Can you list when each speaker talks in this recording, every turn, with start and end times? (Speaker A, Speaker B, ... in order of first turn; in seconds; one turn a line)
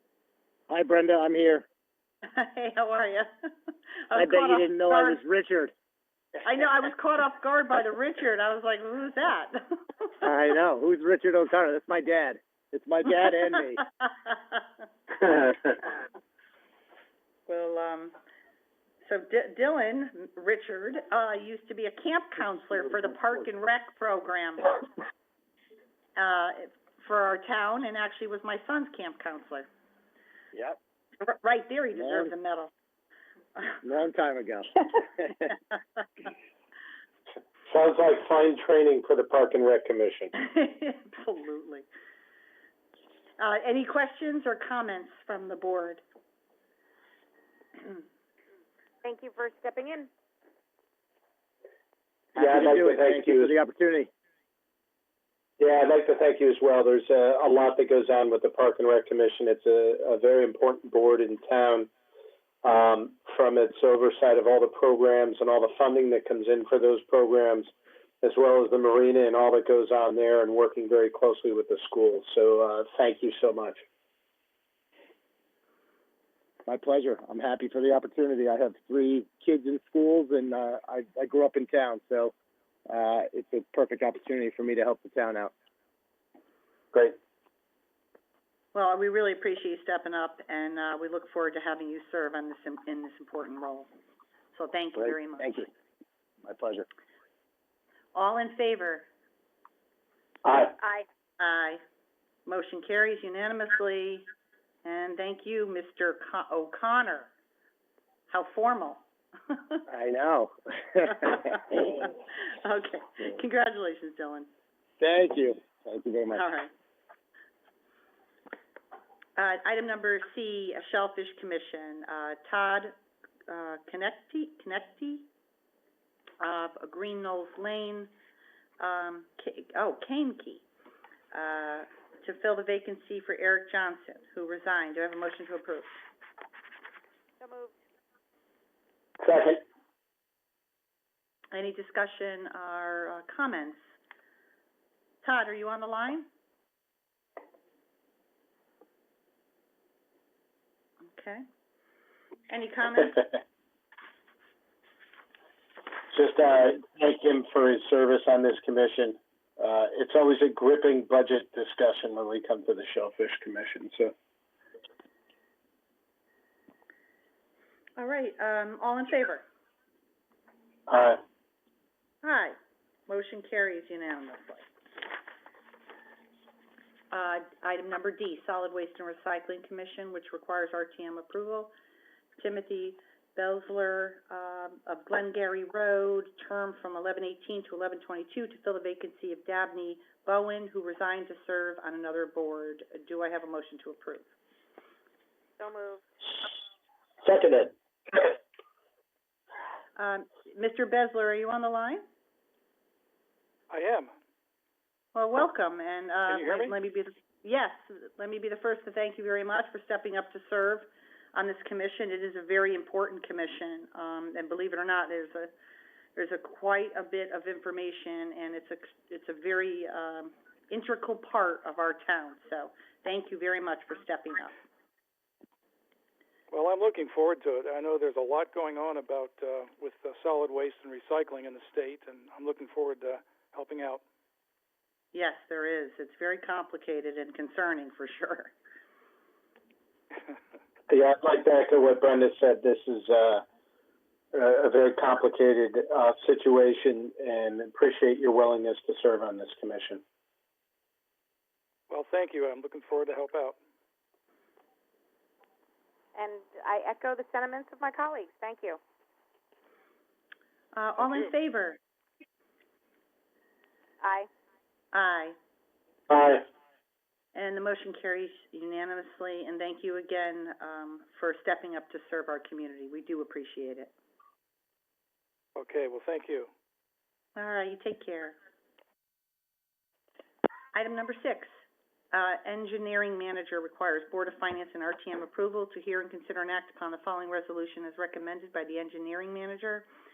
Speaker A: 0.7-1.6
Speaker B: 2.2-3.5
Speaker B: 4.1-5.2
Speaker A: 4.1-5.7
Speaker B: 6.4-10.2
Speaker A: 10.2-13.8
Speaker B: 17.5-18.1
Speaker B: 19.0-24.8
Speaker B: 26.1-29.7
Speaker B: 31.2-32.7
Speaker A: 31.9-32.3
Speaker A: 33.8-35.5
Speaker C: 37.7-40.3
Speaker B: 40.4-41.9
Speaker B: 43.4-46.0
Speaker D: 49.0-50.1
Speaker A: 52.3-54.1
Speaker C: 52.4-53.5
Speaker C: 55.6-61.9
Speaker C: 62.6-67.7
Speaker C: 68.2-73.8
Speaker A: 76.7-82.3
Speaker A: 82.9-85.5
Speaker B: 88.7-93.9
Speaker B: 94.5-95.7
Speaker A: 95.0-95.7
Speaker A: 96.4-96.8
Speaker B: 98.1-99.0
Speaker C: 100.4-100.7
Speaker D: 100.8-101.0
Speaker B: 101.4-101.8
Speaker B: 102.5-104.2
Speaker B: 104.8-107.3
Speaker B: 108.3-109.0
Speaker B: 109.5-109.8
Speaker A: 109.9-111.8
Speaker B: 111.2-114.5
Speaker A: 115.0-116.5
Speaker B: 116.3-116.7
Speaker B: 119.4-122.9
Speaker B: 123.5-125.3
Speaker B: 126.4-128.1
Speaker B: 128.8-130.6
Speaker B: 131.3-136.0
Speaker D: 137.4-137.7
Speaker C: 139.2-139.6
Speaker B: 141.5-143.8
Speaker B: 145.2-146.3
Speaker B: 151.0-151.4
Speaker B: 152.5-153.3
Speaker C: 156.1-164.1
Speaker B: 168.0-169.4
Speaker C: 170.9-171.2
Speaker B: 172.2-172.6
Speaker B: 173.1-174.7
Speaker B: 177.1-181.7
Speaker B: 182.4-194.3
Speaker D: 195.6-196.0
Speaker C: 197.2-198.3
Speaker B: 199.9-202.0
Speaker E: 203.7-204.1
Speaker B: 205.1-215.5
Speaker E: 206.3-206.8
Speaker B: 216.2-224.5
Speaker E: 226.5-234.0
Speaker B: 235.1-238.5
Speaker C: 240.9-243.4
Speaker C: 244.3-250.0
Speaker E: 251.9-253.6
Speaker D: 256.1-258.8
Speaker B: 260.7-261.8
Speaker D: 264.0-264.3
Speaker B: 264.9-265.4
Speaker C: 266.1-266.4
Speaker B: 267.3-273.9
Speaker E: 275.6-276.5
Speaker B: 277.4-278.3
Speaker B: 280.7-281.5
Speaker B: 282.1-289.8